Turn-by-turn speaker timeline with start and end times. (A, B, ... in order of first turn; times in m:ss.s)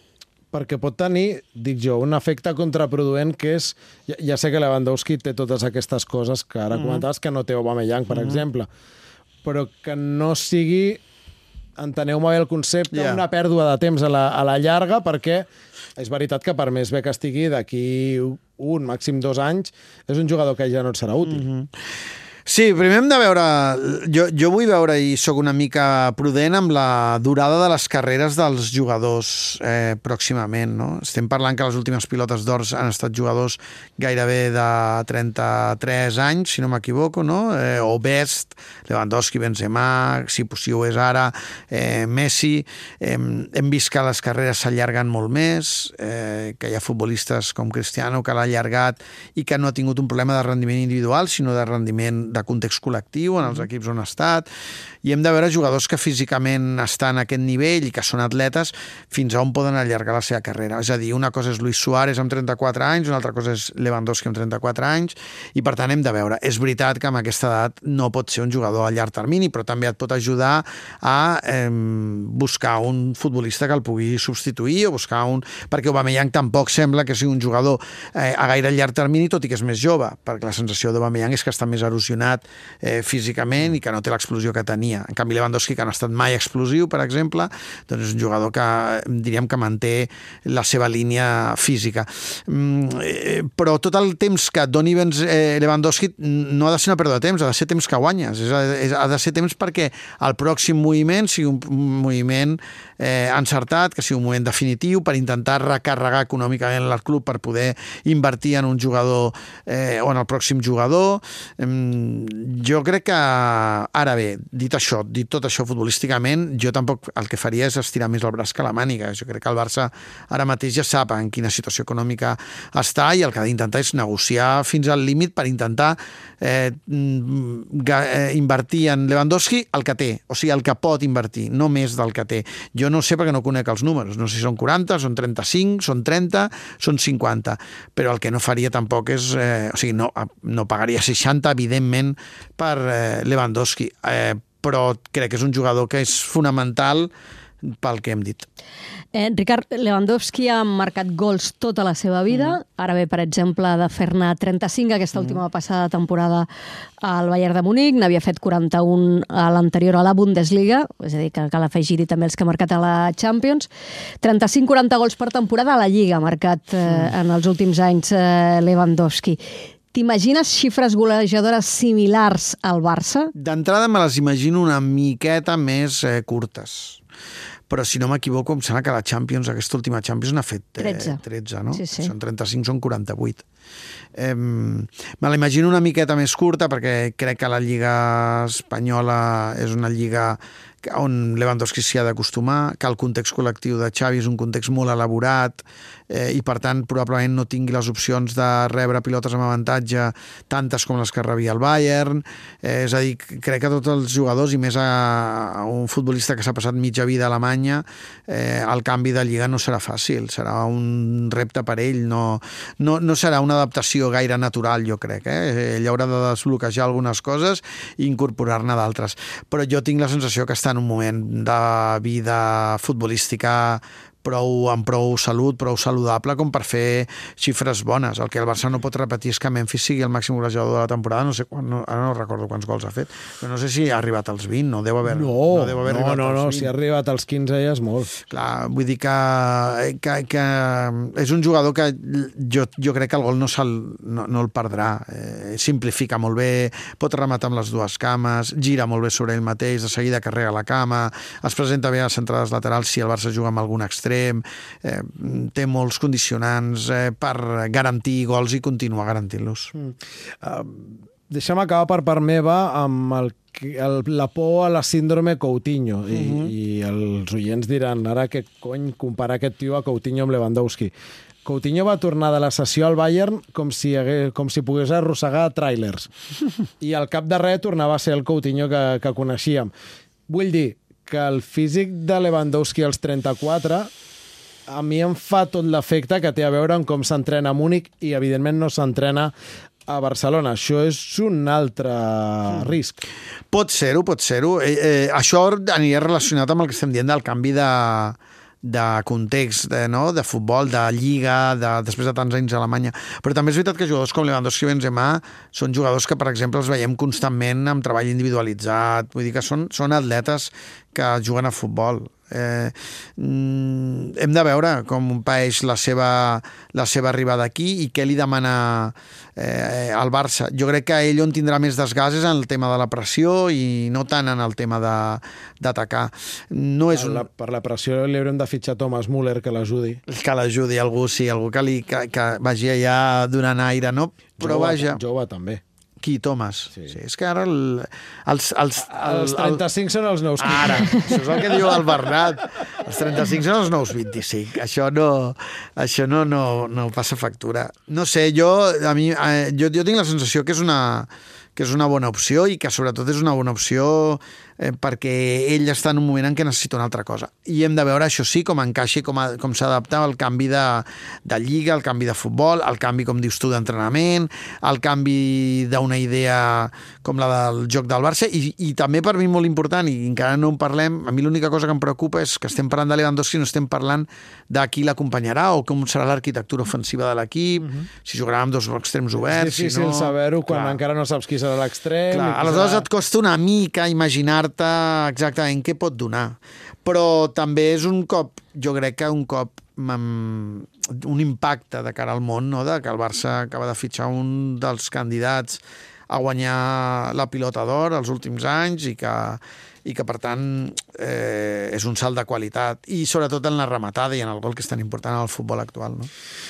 0:00.5-0:08.7 A
0:06.7-0:07.0 B
0:08.1-0:08.5 B
0:09.4-0:11.0 A
0:11.8-0:21.4 A
0:12.9-0:13.2 B
0:21.2-0:21.7 B
0:22.5-0:54.5 B
0:55.0-2:27.1 B
2:27.6-2:28.5 B
2:29.1-2:36.5 C
2:32.3-2:32.6 B
2:35.2-2:35.4 B
2:37.0-2:43.7 C
2:44.2-2:49.4 C
2:49.9-2:53.3 C
2:53.3-2:57.0 B
2:57.7-3:03.4 B
3:00.8-3:01.2 C
3:01.7-3:02.1 C
3:04.2-3:56.7 B
3:55.0-3:58.1 A
3:58.3-4:19.7 B
4:19.7-4:30.9 A
4:26.1-4:26.5 B
4:31.4-4:36.1 A
4:36.8-4:39.7 A
4:40.3-4:43.9 A
4:44.7-4:49.3 A
4:49.9-4:53.0 A
4:53.5-5:27.3 B
5:26.9-5:30.0 A
5:30.1-5:35.0 B
5:34.4-5:35.6 A
5:36.0-5:39.6 B
5:38.8-5:41.8 A
5:40.4-6:20.8 B
6:17.6-6:17.9 A
6:19.2-6:22.9 A
6:22.1-6:46.1 B